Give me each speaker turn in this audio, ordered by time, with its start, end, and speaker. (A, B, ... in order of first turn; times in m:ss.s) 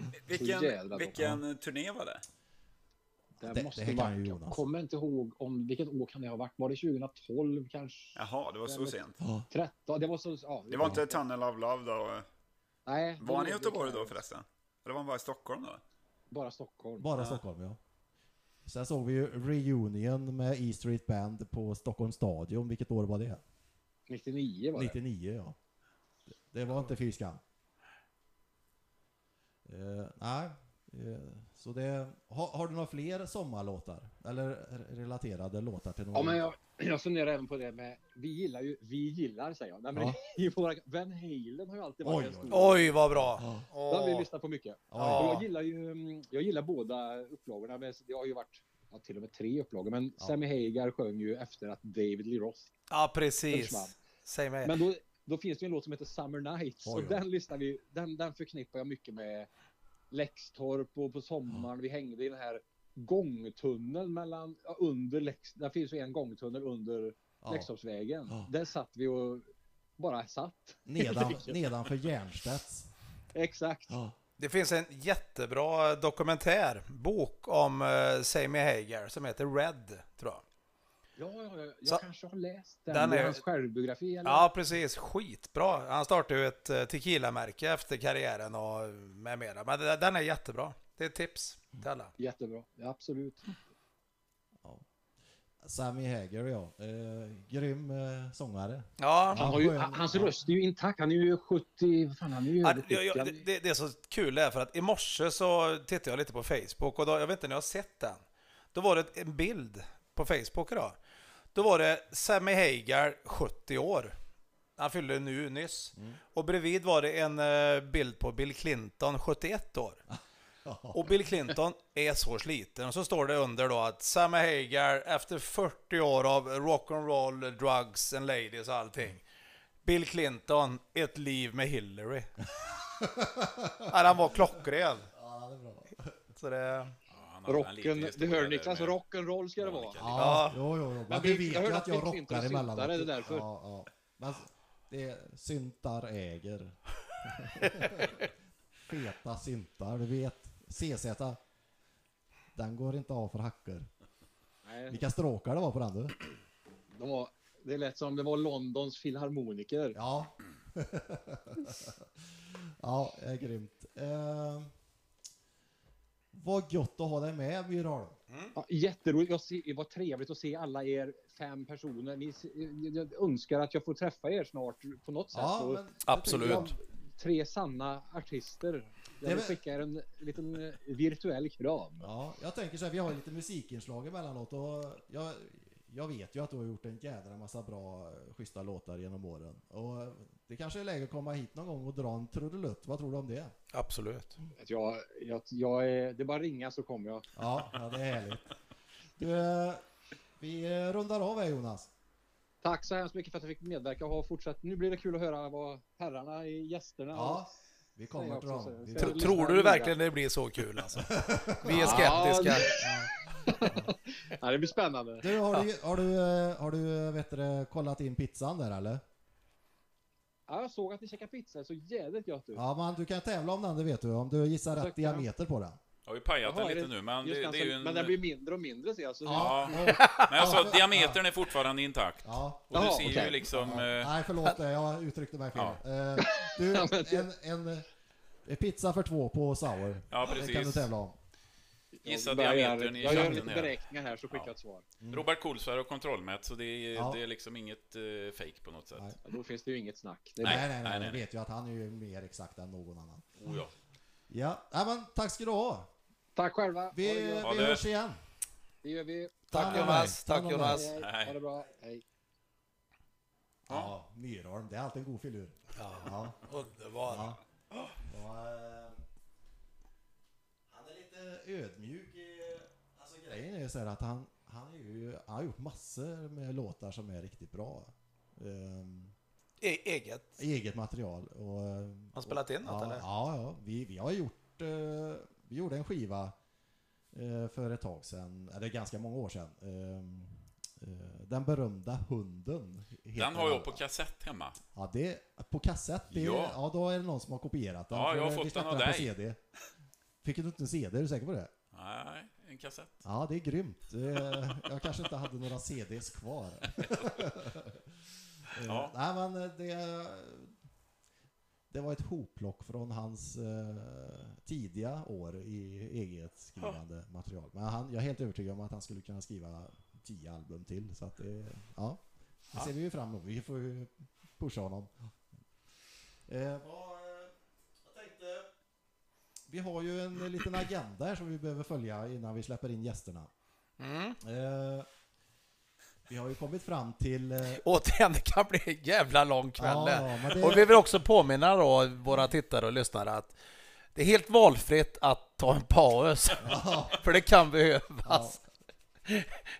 0:00.2-0:02.2 A
0:00.4-0:01.2 B
0:01.1-0:01.4 C
0:03.4-0:11.2 B
0:03.4-0:04.6 C
0:08.2-0:09.2 A
0:09.2-0:09.5 C
0:10.7-0:12.3 A
0:12.9-0:14.2 B
0:13.2-0:15.8 A
0:16.3-0:17.4 B
0:17.0-0:17.8 C
0:18.6-0:23.4 C
0:24.1-0:25.0 B
0:24.8-0:25.6 C
0:26.5-0:27.4 C
0:29.7-0:36.5 C
0:36.1-0:52.7 B
0:42.0-0:42.8 C
0:42.5-0:44.3 D
0:43.4-0:43.7 C
0:44.9-0:45.3 C
0:45.1-0:45.4 D
0:52.9-0:54.8 D
0:53.5-0:54.0 B
0:54.6-0:59.5 B
0:56.8-0:57.2 C
1:00.1-1:11.6 B
1:07.4-1:07.7 C
1:10.9-1:12.9 C
1:13.3-1:14.0 B
1:14.4-1:20.4 D
1:21.2-1:24.5 B
1:22.9-1:23.4 D
1:24.2-1:32.1 D
1:32.2-1:33.6 B
1:35.6-1:40.3 C
1:39.0-1:39.6 D
1:39.4-1:43.4 B
1:42.6-1:48.2 D
1:48.7-1:51.0 D
1:51.5-1:54.2 D
1:54.8-2:00.0 D
2:00.1-2:01.0 C
2:00.9-2:09.2 D
2:09.8-2:12.3 D
2:12.7-2:13.9 C
2:13.9-2:15.1 D
2:15.1-2:16.2 C
2:16.4-2:17.0 D
2:17.1-2:19.0 E
2:17.5-2:20.1 B
2:19.6-2:20.2 E
2:20.0-2:28.2 C
2:20.2-2:20.6 D
2:21.1-2:23.5 B
2:28.9-2:31.4 C
2:32.6-2:33.9 C
2:34.6-2:35.0 B
2:34.9-2:36.2 C
2:36.9-2:40.0 B
2:39.9-2:44.7 C
2:46.3-2:48.2 C
2:48.6-3:02.1 B
2:55.3-2:56.8 C
2:56.1-2:56.7 D
2:59.2-2:59.6 C
3:02.0-3:13.5 C
3:13.7-3:14.4 D
3:14.6-3:17.3 B
3:17.4-3:18.5 C
3:19.2-3:19.9 C
3:20.4-3:21.9 C
3:22.6-3:27.5 B
3:27.1-3:29.4 C
3:28.1-3:30.0 B
3:29.0-3:32.7 D
3:31.0-3:32.3 C
3:31.7-3:35.5 B
3:32.8-3:33.1 C
3:35.2-3:39.0 C
3:40.5-3:42.7 B
3:42.5-3:45.8 C
3:44.7-3:45.3 B
3:46.1-3:48.2 E
3:46.4-3:50.0 B
3:49.2-3:51.2 C
3:49.3-3:54.2 E
3:52.2-3:57.9 C
3:52.7-3:53.4 B
3:55.6-3:55.8 E
3:56.2-3:57.3 B
3:58.4-4:01.2 C
4:00.1-4:00.9 E
4:01.9-4:04.9 B
4:02.0-4:04.5 E
4:03.0-4:03.4 C
4:05.0-4:05.3 C
4:05.1-4:09.2 E
4:07.0-4:07.2 C
4:09.2-4:10.7 B
4:10.4-4:11.2 E
4:10.4-4:13.5 C
4:13.4-4:13.7 E
4:14.3-4:15.9 C
4:16.4-4:17.7 B
4:16.9-4:18.2 C
4:17.4-4:17.8 E
4:18.8-4:22.0 B
4:19.5-4:20.9 D
4:19.5-4:20.9 C
4:21.0-4:21.4 E
4:23.7-4:26.4 C
4:25.8-4:27.4 D
4:27.0-4:27.4 C
4:28.0-4:29.0 C
4:30.7-4:39.1 C
4:39.6-4:40.4 D
4:40.4-4:46.4 C
4:42.2-4:43.0 D
4:47.1-4:53.8 C
4:53.2-4:54.6 E
4:54.8-4:59.4 C
4:56.1-4:56.6 E
4:57.9-4:59.1 E
5:00.2-5:01.5 C
5:01.7-5:03.0 E
5:03.0-5:07.8 C
5:06.8-5:07.2 E
5:08.5-5:10.6 C
5:08.6-5:08.9 E
5:11.7-5:25.1 C
5:26.3-5:28.5 C
5:29.5-5:33.3 C
5:33.8-5:34.2 D
5:34.2-5:34.9 C
5:36.1-5:37.6 C
5:37.6-5:43.4 D
5:39.6-5:40.7 C
5:44.0-5:48.4 D
5:46.4-5:47.1 C
5:48.0-5:48.4 C